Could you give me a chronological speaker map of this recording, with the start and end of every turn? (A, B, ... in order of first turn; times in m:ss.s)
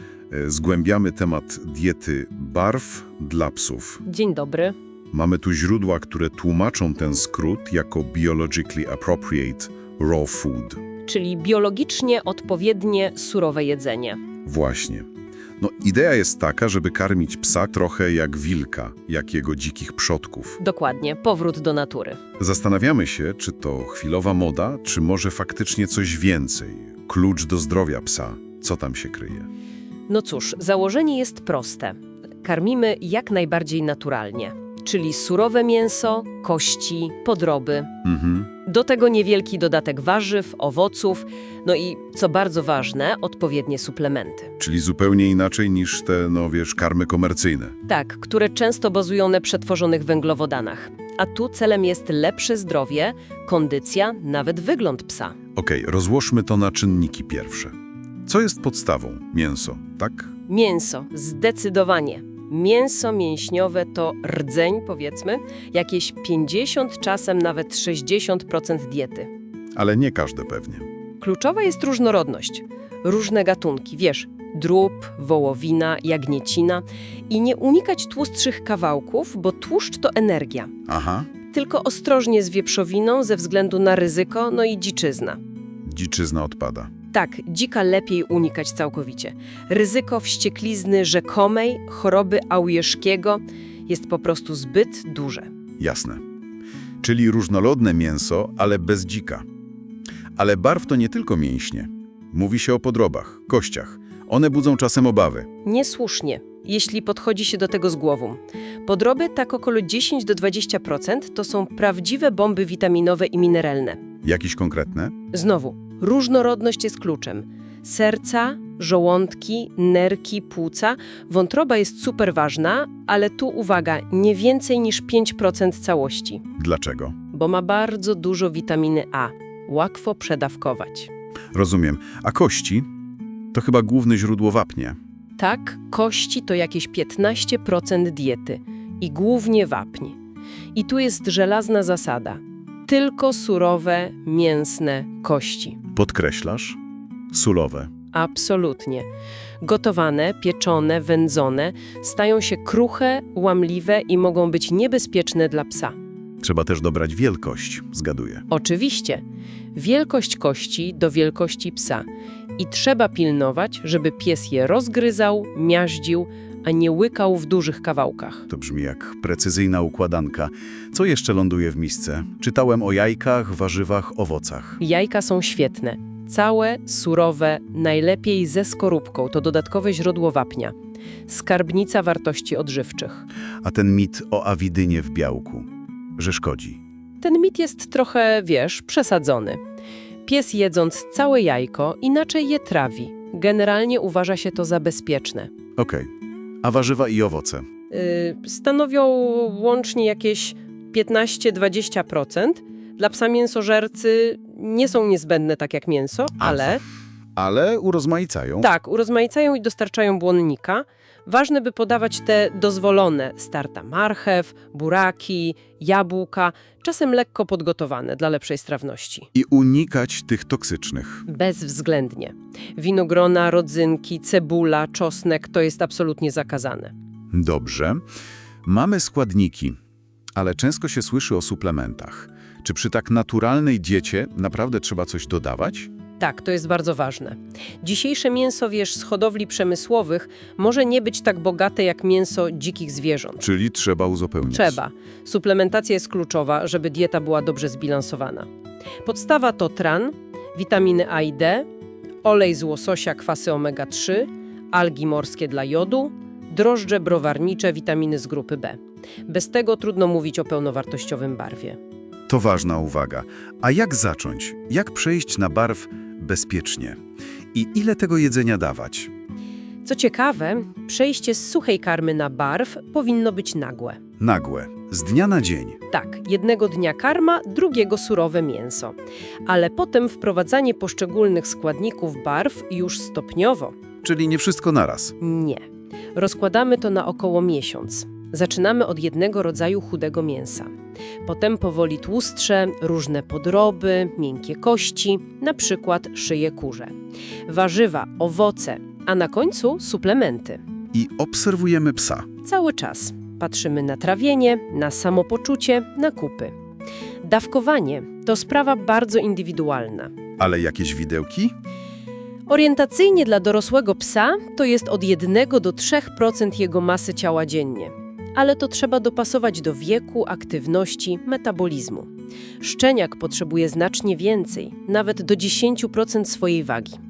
0:00.3-0:04.0 A
0:04.0-0:04.8 B
0:05.1-0:10.8 A
0:11.0-0:14.2 B
0:14.4-0:15.1 A
0:15.6-0:20.6 A
0:20.6-0:22.2 B
0:22.4-0:29.5 A
0:30.1-0:37.9 B
0:38.0-0:38.5 A
0:38.6-0:44.5 B
0:44.6-0:47.8 A
0:47.9-0:55.4 B
0:55.6-1:00.3 A
1:00.5-1:09.3 B
1:09.8-1:10.9 A
1:11.2-1:20.7 B
1:20.9-1:21.3 A
1:21.5-1:25.4 B
1:25.8-1:26.9 A
1:27.1-1:35.5 B
1:35.8-1:36.2 A
1:37.0-1:39.4 A
1:40.4-1:45.5 A
1:45.6-1:54.0 B
1:54.2-1:55.1 A
1:55.3-2:06.4 B
2:06.6-2:07.2 A
2:07.3-2:11.1 B
2:11.5-2:12.9 A
2:13.5-2:15.0 A
2:15.4-2:20.2 B
2:20.8-2:25.8 B
2:25.9-2:26.8 A
2:27.3-2:27.9 A
2:28.1-2:29.1 B
2:29.6-2:36.0 B
2:36.4-2:38.4 A
2:38.5-2:39.2 B
2:39.7-2:42.0 B
2:42.6-2:48.5 B
2:48.5-2:54.8 A
2:54.8-3:00.7 B
3:01.3-3:03.2 B
3:03.6-3:06.8 A
3:07.2-3:09.6 B
3:10.2-3:15.5 B
3:15.8-3:16.1 A
3:16.6-3:17.6 A
3:17.9-3:26.8 B
3:26.4-3:26.7 A
3:27.4-3:28.7 A
3:28.6-3:39.3 B
3:39.4-3:41.3 A
3:41.3-3:46.9 B
3:47.3-3:48.0 A
3:48.6-3:49.8 A
3:50.4-3:55.9 A
3:56.2-4:03.4 B
4:03.4-4:04.8 A
4:04.5-4:08.5 B
4:09.0-4:11.7 B
4:12.2-4:21.8 B
4:22.3-4:27.0 A
4:27.5-4:29.1 A
4:29.8-4:34.0 B
4:34.2-4:35.8 A
4:35.9-4:43.8 B
4:44.0-4:45.2 A
4:45.2-4:45.6 B
4:46.2-4:50.7 B
4:51.2-4:57.0 B
4:57.5-5:00.6 B
5:00.9-5:02.3 A
5:02.4-5:06.5 B
5:07.2-5:10.1 B
5:10.4-5:11.5 A
5:12.5-5:27.0 B